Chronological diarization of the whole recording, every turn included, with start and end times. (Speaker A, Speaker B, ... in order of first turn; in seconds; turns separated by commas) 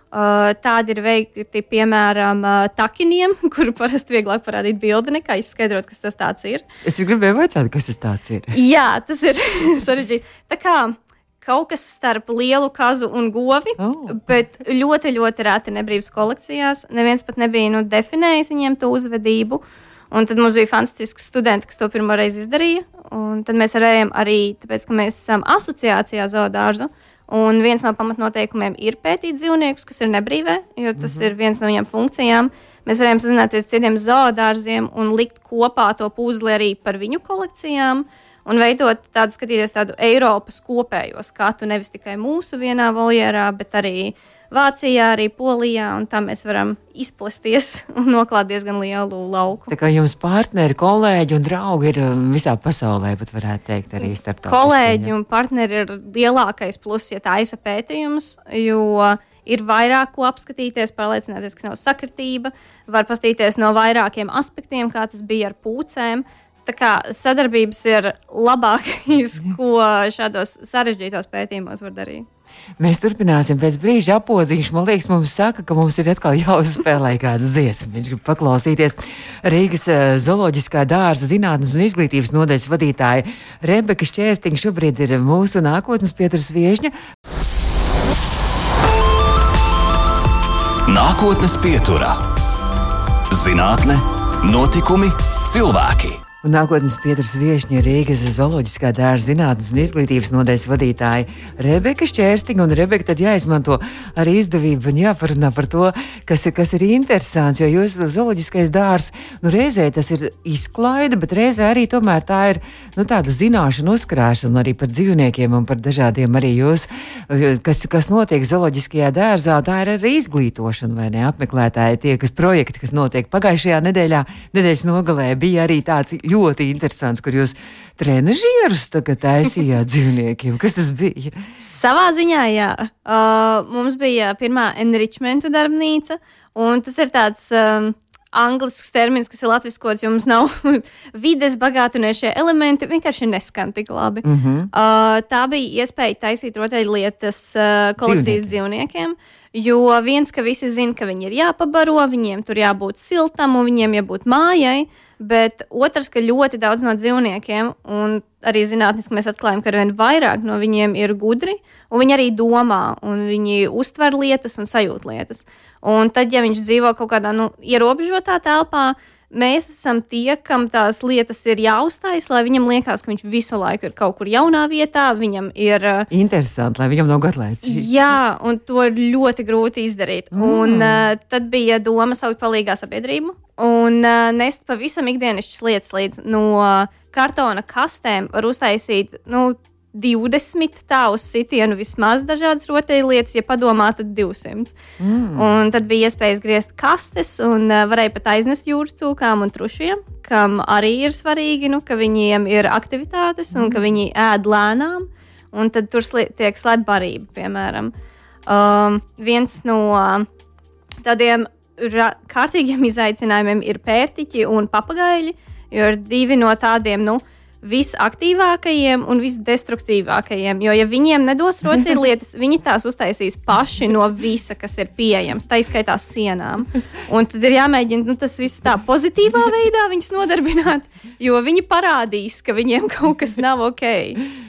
Speaker A: 0.1-6.7, Speaker B: 6.8-8.5, Speaker A: 8.5-49.7, Speaker B: 13.8-14.2, Speaker B: 31.0-31.3, Speaker B: 49.7-55.1, Speaker A: 54.5-72.3, Speaker B: 72.8-86.9, Speaker C: 90.9-92.2, Speaker C: 93.3-96.2, Speaker B: 96.4-131.4, Speaker A: 131.6-176.1, Speaker B: 144.2-144.7, Speaker B: 148.0-148.6, Speaker B: 176.1-177.9, Speaker A: 177.6-194.8, Speaker B: 180.3-181.1, Speaker B: 195.0-195.5, Speaker A: 195.3-207.9, Speaker B: 203.5-203.8, Speaker A: 208.5-210.3, Speaker A: 211.0-234.2